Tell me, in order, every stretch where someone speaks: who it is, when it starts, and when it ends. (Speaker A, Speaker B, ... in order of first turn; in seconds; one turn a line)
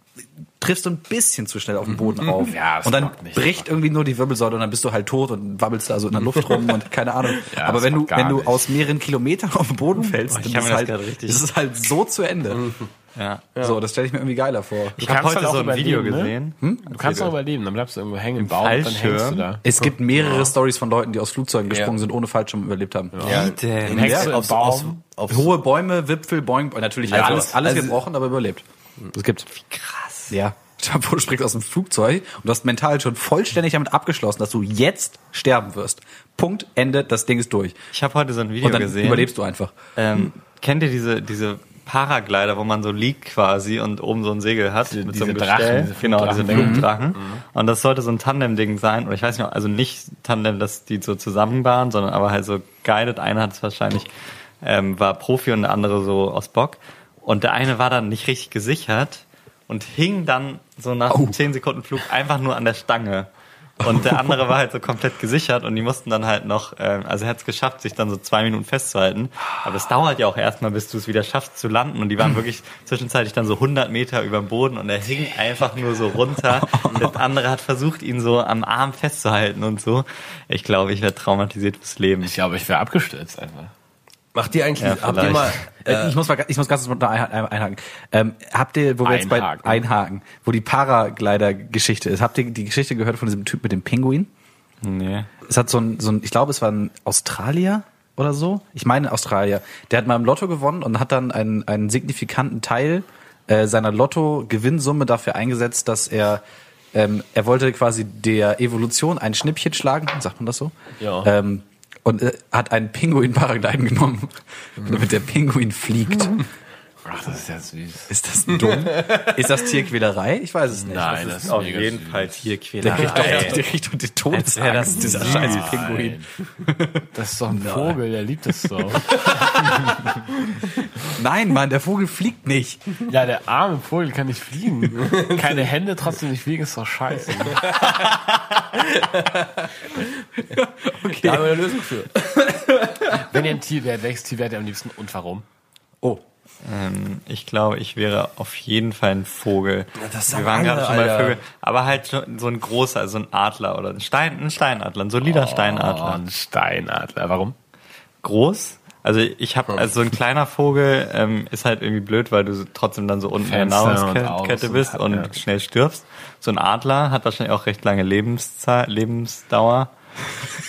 Speaker A: 0.6-12.7
Speaker B: 2.2-3.7
Speaker B: 7.4-8.7
Speaker C: 10.3-11.4
Speaker D: 12.5-12.9
Speaker C: 13.2-13.4
Speaker A: 13.6-15.0
Speaker B: 15.0-19.6
Speaker C: 15.0-17.3
Speaker C: 18.4-19.5
Speaker A: 19.6-24.3
Speaker D: 20.1-20.5
Speaker D: 21.7-21.9
Speaker B: 23.1-25.0
Speaker C: 23.2-24.2
Speaker D: 23.2-25.5
Speaker A: 25.3-29.5
Speaker D: 27.1-28.0
Speaker C: 29.5-30.4
Speaker A: 30.3-37.8
Speaker C: 37.9-39.3
Speaker A: 38.6-39.7
Speaker C: 40.0-54.1
Speaker B: 44.9-47.4
Speaker A: 46.5-46.9
Speaker C: 54.6-63.3
Speaker A: 61.1-61.4
Speaker C: 63.8-82.3
Speaker A: 63.9-64.2
Speaker A: 76.5-77.2
Speaker B: 82.2-83.7
Speaker D: 84.3-86.2
Speaker C: 84.8-85.6
Speaker A: 85.8-94.3
Speaker B: 89.0-89.8
Speaker C: 94.8-95.3
Speaker A: 95.5-106.4
Speaker A: 106.9-116.5
Speaker B: 111.0-111.3
Speaker B: 117.0-118.1
Speaker A: 118.1-121.6
Speaker D: 118.6-119.5
Speaker B: 120.7-123.0
Speaker C: 121.5-123.6
Speaker A: 122.8-128.0
Speaker D: 122.9-123.6
Speaker C: 124.3-126.0
Speaker B: 124.9-126.3
Speaker B: 127.1-130.0
Speaker A: 129.3-129.8
Speaker A: 131.1-133.0
Speaker B: 133.1-137.7
Speaker D: 135.1-135.5
Speaker D: 137.4-140.1
Speaker A: 140.6-141.6
Speaker D: 141.1-142.6
Speaker B: 143.1-145.4
Speaker C: 146.6-156.2
Speaker D: 150.0-151.4
Speaker B: 155.2-157.6
Speaker C: 158.2-169.9
Speaker B: 163.4-165.3